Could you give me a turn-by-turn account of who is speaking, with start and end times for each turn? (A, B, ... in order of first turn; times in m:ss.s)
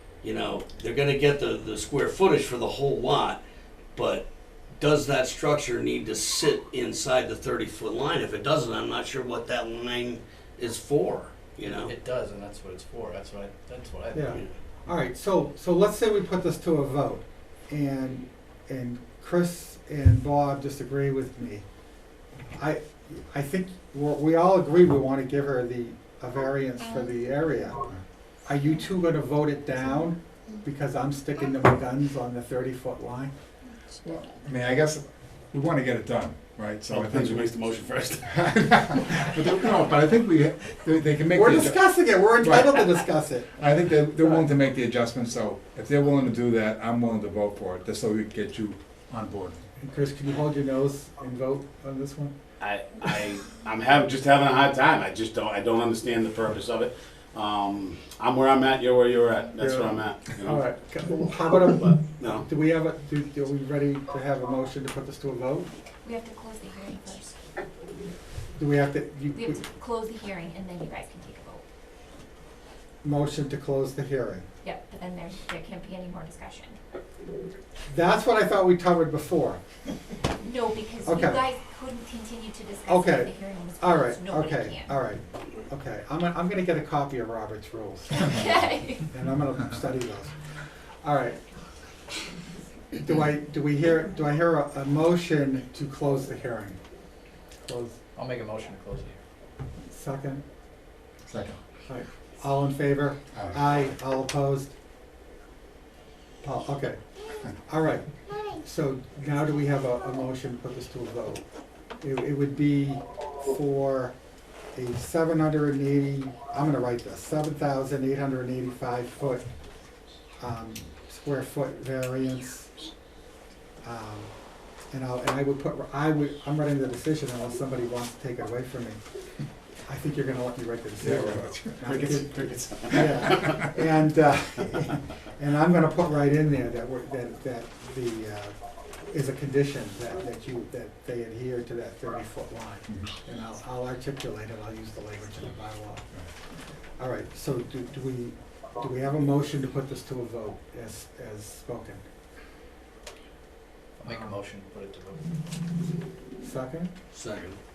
0:00.2-0:03.4 A
0:04.0-0:04.2 A
0:04.8-0:11.9 A
0:11.7-0:14.3 B
0:14.2-0:21.6 C
0:22.6-0:27.8 C
0:28.4-0:33.3 C
0:34.0-0:37.4 D
0:36.9-0:38.4 E
0:38.3-0:41.8 D
0:41.3-0:43.5 C
0:42.4-0:42.9 D
0:43.6-0:49.6 D
0:49.8-0:52.3 C
0:52.6-1:00.7 E
0:59.6-1:05.7 C
1:01.6-1:02.5 E
1:06.0-1:07.4 F
1:08.6-1:09.6 C
1:09.3-1:11.6 F
1:13.0-1:14.4 C
1:14.6-1:16.8 F
1:17.9-1:19.6 C
1:20.4-1:24.9 F
1:21.0-1:21.4 C
1:22.9-1:28.6 C
1:28.2-1:29.0 F
1:29.1-1:30.3 C
1:31.0-1:31.4 C
1:33.0-1:36.8 C
1:37.6-1:38.0 C
1:38.2-1:39.2 B
1:39.9-1:40.4 C
1:41.2-1:41.6 D
1:41.9-1:44.7 C
1:46.4-1:47.0 C
1:47.7-1:48.0 C
1:48.6-1:51.4 C
1:52.0-1:54.1 C
1:54.7-1:59.4 C
2:00.4-2:02.7 C
2:03.8-2:04.3 C
2:04.9-2:09.0 C
2:09.9-2:18.5 C
2:11.0-2:11.9 D
2:11.8-2:13.6 E
2:19.1-2:26.0 C
2:27.0-2:32.0 C
2:34.0-2:35.3 B
2:36.4-2:36.9 C
2:37.1-2:37.6 A